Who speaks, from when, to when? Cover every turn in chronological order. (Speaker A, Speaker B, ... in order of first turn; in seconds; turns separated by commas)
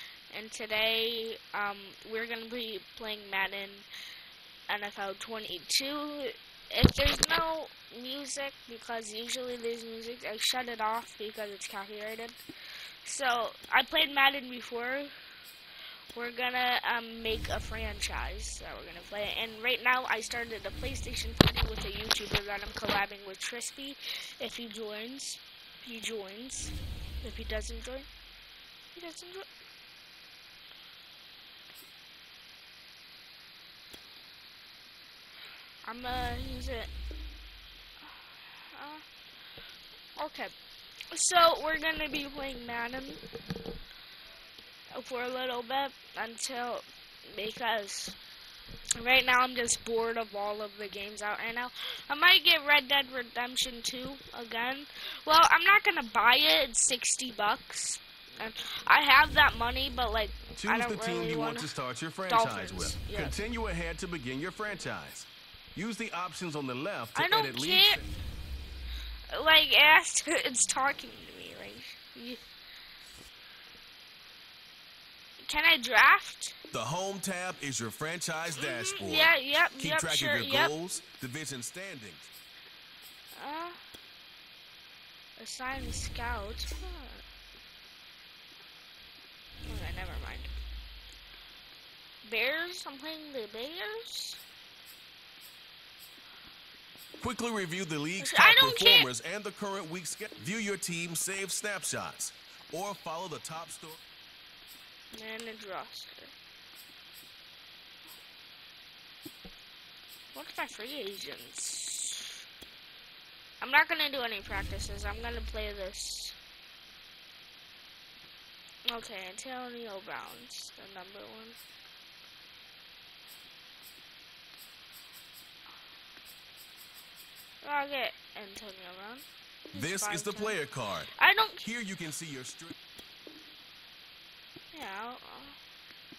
Speaker A: 0.3-3.9, Speaker A: 4.7-12.4, Speaker A: 13.1-15.1, Speaker A: 16.1-28.1, Speaker A: 28.9-29.5, Speaker A: 35.9-36.9, Speaker A: 38.6-39.0, Speaker A: 40.2-40.5, Speaker A: 41.1-43.2, Speaker A: 44.9-48.2, Speaker A: 49.0-61.7, Speaker B: 60.6-68.1, Speaker A: 62.3-63.4, Speaker A: 67.2-68.0, Speaker A: 69.3-72.4, Speaker A: 75.4-76.5, Speaker B: 76.7-82.3, Speaker A: 78.6-80.7, Speaker A: 83.3-83.8, Speaker A: 85.4-87.2, Speaker A: 89.7-90.5, Speaker A: 92.2-94.4, Speaker B: 97.2-104.0, Speaker A: 98.2-99.1, Speaker A: 105.1-106.3, Speaker A: 110.3-112.4, Speaker A: 113.6-116.4, Speaker A: 118.9-121.6, Speaker A: 127.6-130.6, Speaker B: 129.8-132.7, Speaker A: 131.2-131.7, Speaker A: 134.7-135.6